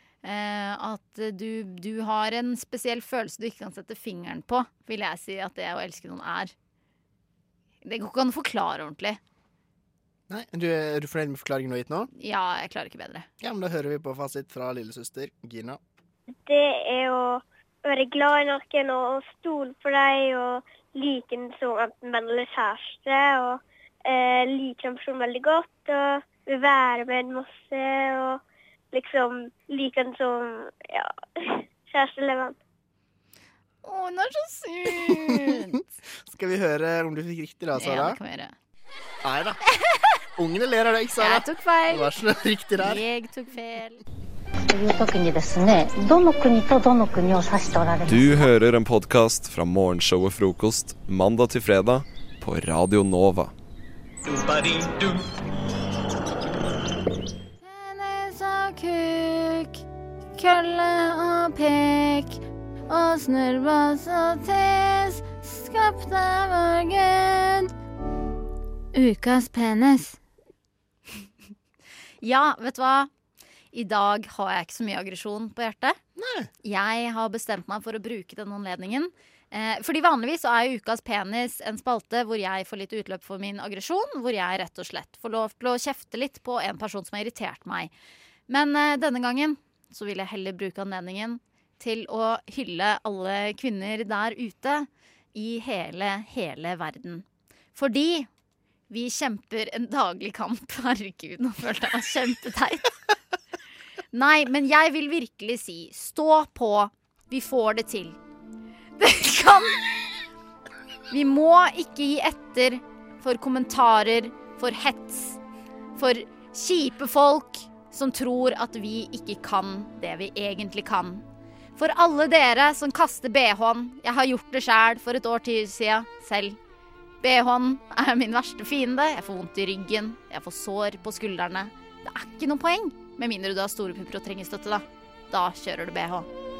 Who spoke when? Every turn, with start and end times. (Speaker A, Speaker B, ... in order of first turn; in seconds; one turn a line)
Speaker A: 0.2-6.5
Speaker A: 7.8-9.2
Speaker B: 10.3-12.1
Speaker A: 12.1-13.3
Speaker B: 13.4-15.8
Speaker C: 16.3-32.5
Speaker A: 33.8-35.8
Speaker B: 35.0-35.6
Speaker B: 36.3-38.2
Speaker A: 37.8-38.5
Speaker B: 39.2-39.6
Speaker A: 39.7-40.2
Speaker B: 40.4-43.0
Speaker A: 41.2-42.1
Speaker A: 42.8-44.0
Speaker D: 44.7-48.5
Speaker E: 48.1-53.5
Speaker A: 57.6-59.8
Speaker A: 60.3-67.7
Speaker A: 68.9-70.2
Speaker A: 72.2-73.1
Speaker A: 73.7-76.0
Speaker B: 76.2-76.5
Speaker A: 76.6-87.9
Speaker A: 88.5-98.3
Speaker A: 98.9-102.9
Speaker A: 104.1-108.2
Speaker A: 109.0-109.8
Speaker A: 111.1-115.4
Speaker A: 116.0-121.2
Speaker A: 121.8-126.6
Speaker A: 127.2-136.3